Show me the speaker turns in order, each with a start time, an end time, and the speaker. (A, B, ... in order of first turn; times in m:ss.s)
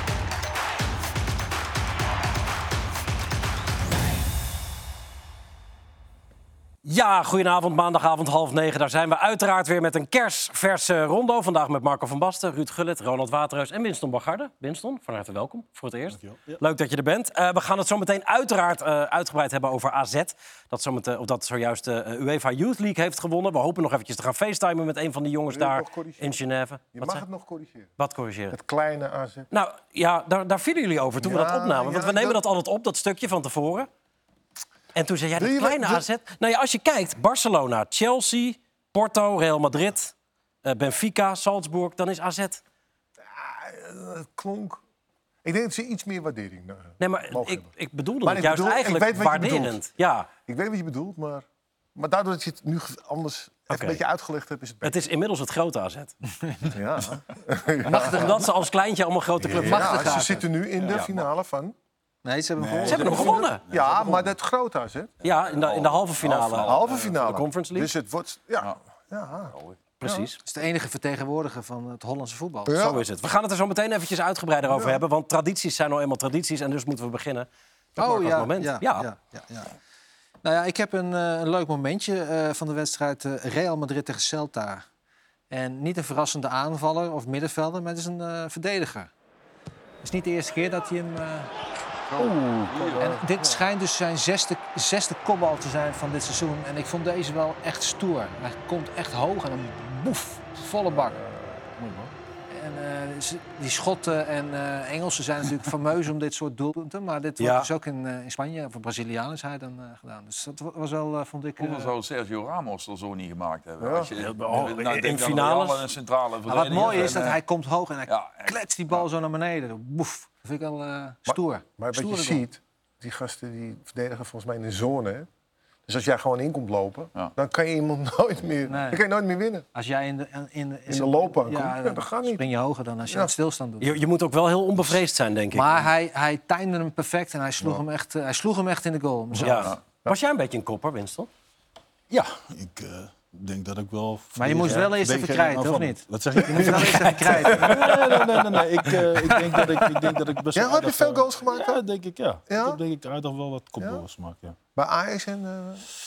0:06.8-0:27.2 A
0:16.1-0:16.6 B
0:25.5-0:26.4 C
0:26.9-0:27.9 C
0:28.0-0:28.6 A
0:28.5-0:29.5 C
0:29.5-0:33.9 A
0:31.2-0:32.4 C
0:34.9-0:40.1 A
0:35.4-0:36.0 C
0:40.6-0:42.6 A
0:43.3-0:44.8 C
0:45.4-0:47.7 C
0:47.0-0:50.3 A
0:48.2-0:49.8 C
0:50.4-0:51.4 C
0:52.0-0:55.0 C
0:53.7-0:54.0 A
0:54.8-0:56.1 A
0:56.7-0:58.4 C
0:57.9-0:58.3 D
0:57.9-1:00.3 A
0:59.4-1:00.0 B
0:59.6-1:00.4 D
0:59.6-1:01.7 C
1:02.2-1:03.5 D
1:02.6-1:04.3 B
1:02.9-1:03.6 A
1:03.7-1:05.1 C
1:05.2-1:07.1 E
1:05.2-1:07.9 A
1:06.6-1:10.3 C
1:10.0-1:10.4 A
1:10.4-1:12.7 D
1:12.7-1:13.0 C
1:12.7-1:17.5 A
1:14.7-1:15.0 C
1:18.0-1:19.7 D
1:18.0-1:19.1 A
1:20.4-1:24.8 D
1:25.5-1:29.1 D
1:30.0-1:31.5 D
1:32.1-1:33.1 E
1:32.2-1:33.6 C
1:33.0-1:41.2 D
1:40.9-1:42.1 C
1:42.5-1:51.9 D
1:47.4-1:47.7 A
1:51.6-1:57.4 E
1:53.8-1:54.1 C
1:54.2-1:55.8 A
1:56.4-2:02.4 D
1:58.1-1:59.0 E
2:01.3-2:05.3 C
2:05.9-2:09.6 C
2:08.7-2:09.0 D
2:09.7-2:14.0 D
2:10.9-2:12.4 C
2:13.1-2:13.3 C
2:13.8-2:15.9 A
2:15.5-2:19.8 D
2:19.4-2:21.3 A
2:22.1-2:34.6 B
2:24.4-2:27.7 D
2:26.6-2:28.0 C
2:29.2-2:29.8 D
2:30.5-2:31.8 C
2:32.5-2:32.8 C
2:34.7-2:35.8 C